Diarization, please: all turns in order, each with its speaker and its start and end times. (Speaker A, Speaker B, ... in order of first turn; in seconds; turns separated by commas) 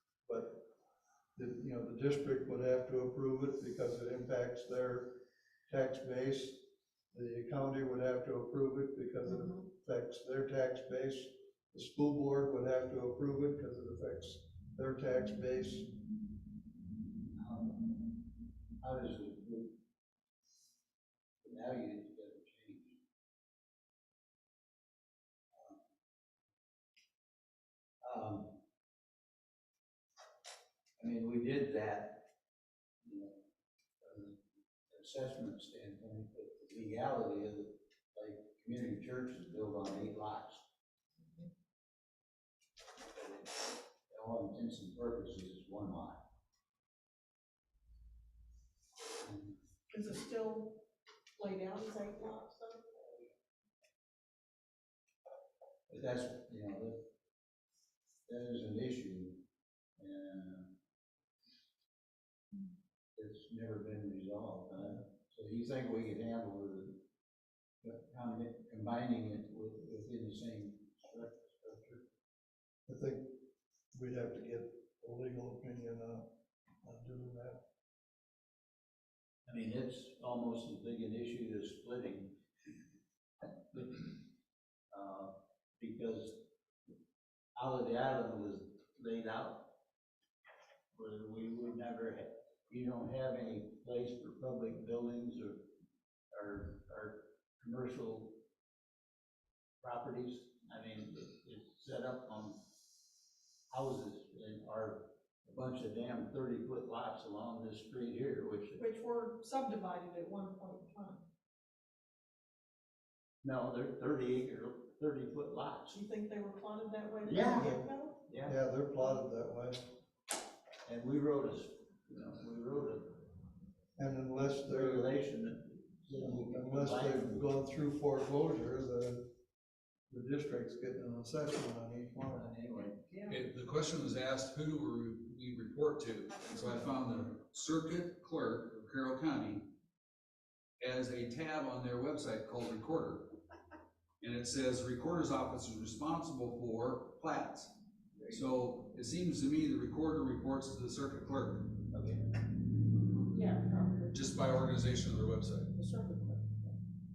Speaker A: 0.3-0.7, Speaker A: 1.4-5.2, Speaker A: 5.7-6.6, Speaker A: 7.1-15.9, Speaker B: 17.3-18.1, Speaker B: 18.8-19.8, Speaker B: 21.4-23.0, Speaker B: 25.5-25.8, Speaker B: 28.0-28.6, Speaker B: 31.0-32.3, Speaker B: 33.0-33.4, Speaker B: 34.0-34.4, Speaker B: 34.9-40.6, Speaker B: 43.2-46.2, Speaker B: 49.2-49.6, Speaker C: 49.9-50.8, Speaker C: 51.4-53.3, Speaker B: 55.9-57.0, Speaker B: 58.3-59.4, Speaker B: 60.0-60.7, Speaker B: 63.2-67.0, Speaker B: 67.8-72.0, Speaker A: 72.9-73.4, Speaker A: 73.9-76.3, Speaker A: 76.8-77.6, Speaker B: 79.5-82.4, Speaker B: 83.4-84.2, Speaker B: 84.9-86.4, Speaker B: 87.6-89.7, Speaker B: 90.9-95.7, Speaker B: 96.3-98.4, Speaker B: 99.8-102.6, Speaker B: 103.7-108.8, Speaker C: 108.8-111.3, Speaker B: 113.4-115.9, Speaker C: 115.9-118.2, Speaker B: 117.2-117.7, Speaker B: 118.3-118.5, Speaker A: 118.4-119.8, Speaker B: 120.8-123.3, Speaker A: 124.0-125.1, Speaker B: 124.7-127.5, Speaker A: 126.2-129.2, Speaker A: 130.1-132.5, Speaker B: 132.3-133.0, Speaker D: 133.3-139.7, Speaker D: 140.8-143.3, Speaker D: 144.2-147.7, Speaker B: 148.2-148.4, Speaker D: 148.3-151.7, Speaker B: 151.9-152.4, Speaker C: 153.3-154.2, Speaker D: 154.1-155.7, Speaker C: 155.7-156.8